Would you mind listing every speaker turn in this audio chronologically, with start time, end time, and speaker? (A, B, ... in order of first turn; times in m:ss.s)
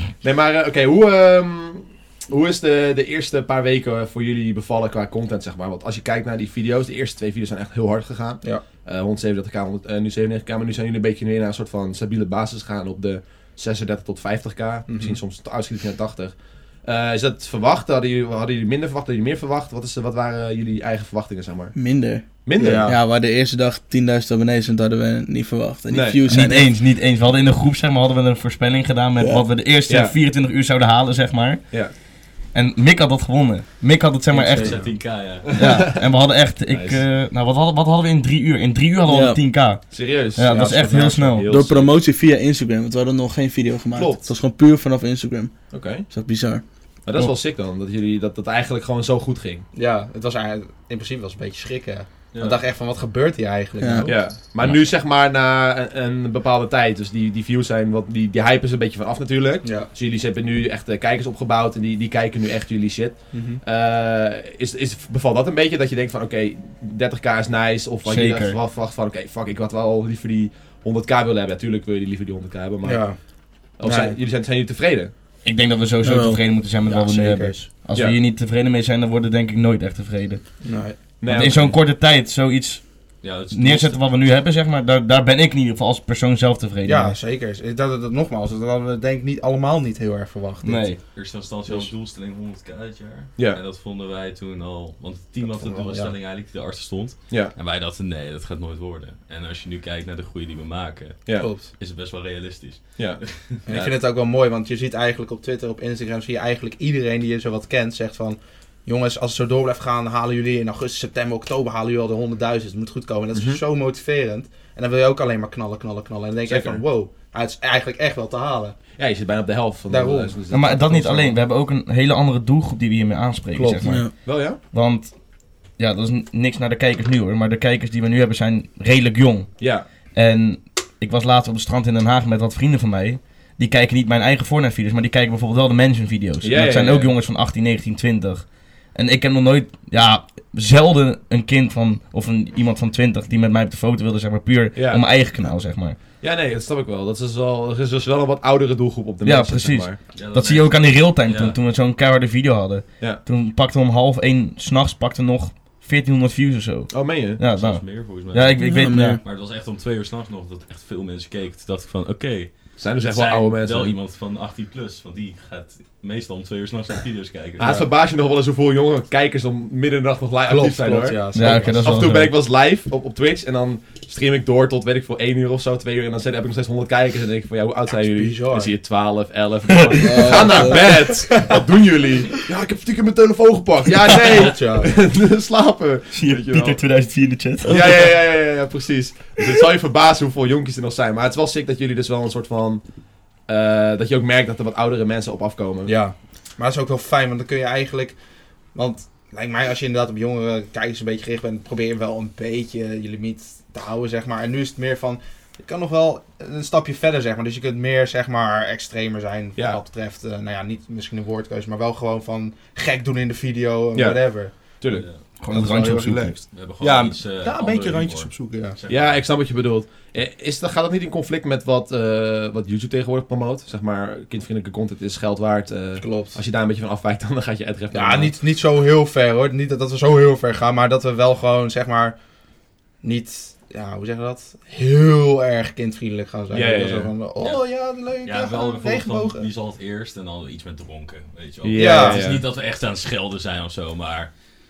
0:00.2-0:21.8 A
0:14.9-0:15.2 B
0:21.7-0:26.8 C
0:22.3-0:22.9 A
0:22.6-0:23.0 B
0:25.9-0:26.2 A
0:26.2-0:31.9 D
0:29.2-0:29.5 C
0:29.9-0:30.2 A
0:32.5-0:34.9 D
0:34.3-0:35.5 E
0:34.5-0:34.9 B
0:35.5-0:36.0 A
0:35.5-0:41.5 D
0:36.7-0:37.0 A
0:39.0-0:39.4 C
0:39.9-0:42.0 A
0:40.5-0:41.0 B
0:41.4-0:46.6 C
0:43.9-0:44.3 A
0:45.7-0:46.1 A
0:47.0-0:49.6 A
0:49.7-0:54.3 B
0:52.3-0:52.6 E
0:53.8-0:54.1 C
0:54.0-1:13.1 A
0:59.6-0:59.9 B
1:03.3-1:03.6 B
1:08.0-1:08.6 D
1:12.8-1:13.2 B
1:13.8-1:15.1 A
1:13.8-1:14.2 B
1:15.4-1:20.5 D
1:16.0-1:16.4 C
1:16.8-1:17.7 B
1:20.6-1:21.0 B
1:21.2-1:21.8 A
1:21.2-1:27.2 D
1:23.2-1:24.2 E
1:26.8-1:30.9 B
1:30.6-1:31.0 D
1:31.1-1:43.6 E
1:31.6-1:31.9 B
1:35.4-1:36.1 B
1:37.3-1:37.5 A
1:41.3-1:41.7 B
1:43.0-1:43.9 A
1:43.7-1:58.8 B
1:53.3-1:53.6 A
1:56.4-1:56.8 A
1:59.0-2:01.4 A
1:59.9-2:00.4 B
2:00.5-2:26.0 D
2:03.5-2:04.0 B
2:03.8-2:04.1 C
2:04.2-2:04.6 A
2:09.6-2:09.8 A
2:16.4-2:17.2 A
2:24.7-2:25.0 A
2:26.2-2:30.0 A
2:29.2-2:39.2 D
2:30.1-2:31.6 E
2:36.9-2:37.4 A
2:37.5-2:47.8 E
2:38.6-2:39.2 C
2:42.8-2:43.9 A
2:47.6-3:06.8 A
2:47.6-2:47.9 B
2:50.5-2:51.9 B
2:51.3-2:52.3 D
2:58.0-2:58.7 B
2:59.7-3:00.1 D
3:00.0-3:01.1 C
3:00.2-3:01.6 B
3:04.3-3:04.9 B
3:06.1-3:08.2 D
3:07.6-3:12.9 A
3:13.4-3:15.9 A
3:15.8-3:18.2 B
3:18.7-3:34.8 B
3:33.9-3:35.1 A
3:34.9-3:35.2 E
3:35.4-3:36.4 D
3:35.5-3:38.8 B
3:36.5-3:39.2 E
3:38.9-3:48.3 A
3:46.0-3:46.4 B
3:47.9-3:52.2 B
3:53.0-3:59.5 B
3:56.5-3:57.1 A
3:57.4-4:04.3 E
4:01.6-4:02.5 A
4:01.7-4:02.4 B